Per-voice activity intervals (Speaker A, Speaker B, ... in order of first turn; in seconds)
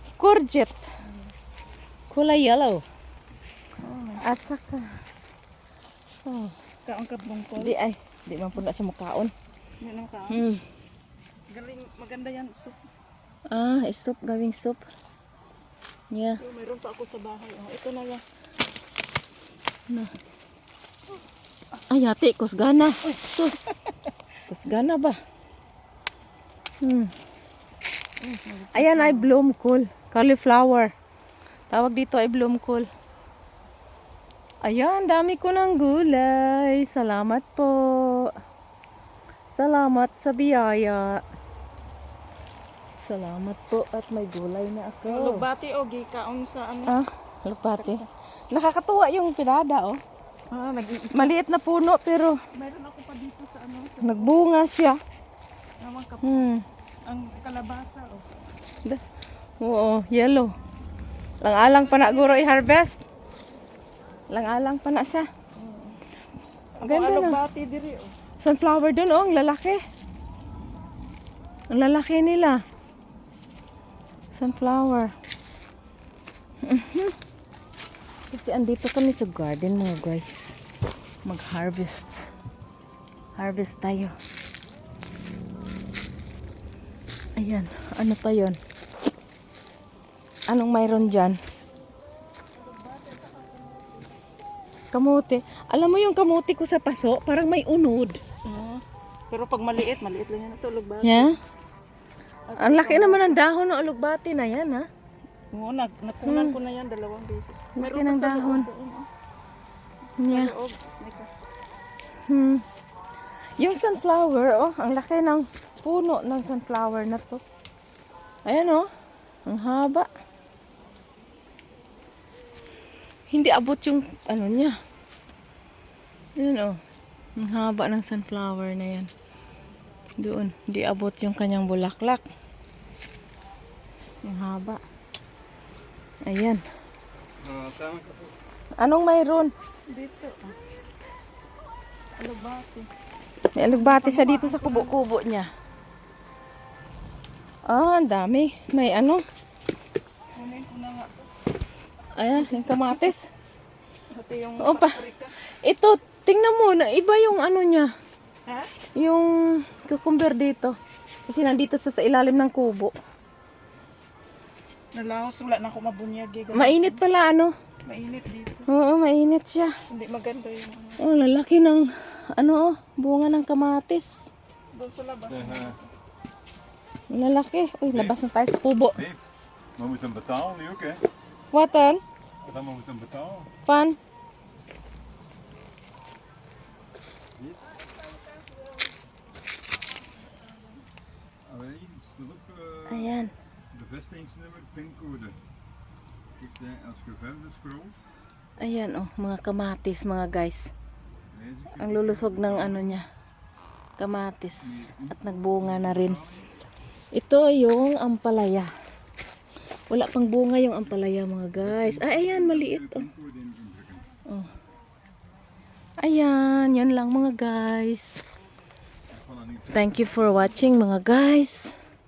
Speaker A: 0.2-0.8, 2.1-2.8, 4.2-4.9, 6.2-6.5, 7.6-9.3, 10.3-10.6, 13.5-14.8, 16.1-16.4, 21.9-23.7, 24.5-25.2, 26.8-27.1, 28.7-30.9, 31.7-32.9, 34.6-38.3, 39.5-41.2, 43.0-45.4, 46.9-50.0, 51.1-52.4, 54.0-55.0, 56.2-56.6, 59.6-60.5, 61.4-63.0, 64.3-65.3, 66.8-67.4, 68.4-69.8, 71.7-72.6, 74.3-75.1, 76.6-77.2, 78.3-80.5, 81.2-82.3, 83.3-84.2, 87.3-88.6, 90.5-91.4, 94.9-98.2, 101.0-101.4, 102.6-104.9, 106.2-106.5, 107.7-108.7, 110.2-110.5, 112.2-112.6, 113.6-117.4, 118.4-118.9, 119.5-120.1, 123.3-124.8, 126.3-126.8, 127.3-129.1, 130.2-132.2, 134.2-134.8, 136.2-136.6, 138.8-139.5, 143.5-145.5, 147.6-149.2, 152.1-153.3, 154.6-157.9, 158.9-162.9, 166.5-167.5, 168.7-169.7, 171.0-174.3, 177.1-179.1, 181.5-182.0, 183.6-184.0, 192.9-193.3, 198.6-200.7, 201.8-203.1, 204.0-206.2, 207.1-208.7, 209.9-213.1, 216.0-218.2, 219.7-221.8
Speaker B: 3.8-4.2, 6.8-7.8, 9.8-10.4, 11.5-12.8, 16.4-18.2, 28.2-29.3, 45.1-46.9, 47.8-48.0, 50.5-51.3, 52.5-54.4, 55.8-56.3, 57.0-58.2, 61.6-62.6, 65.5-66.0, 66.7-68.1, 92.5-94.1, 98.4-101.4, 102.5-103.4, 105.5-109.1, 110.2-111.3, 139.9-140.6, 142.2-142.9, 143.7-144.9, 150.3-151.3, 152.4-152.9, 154.1-155.3, 158.4-158.7, 164.9-167.0, 167.8-168.7, 169.9-171.0, 174.7-175.8, 187.8-188.9
Speaker C: 137.4-138.3, 175.4-175.7, 177.9-178.2, 179.8-181.0, 182.4-183.5, 191.4-193.1, 193.7-195.4, 196.4-197.9, 201.3-202.9, 204.7-206.5, 211.7-214.1, 219.1-220.0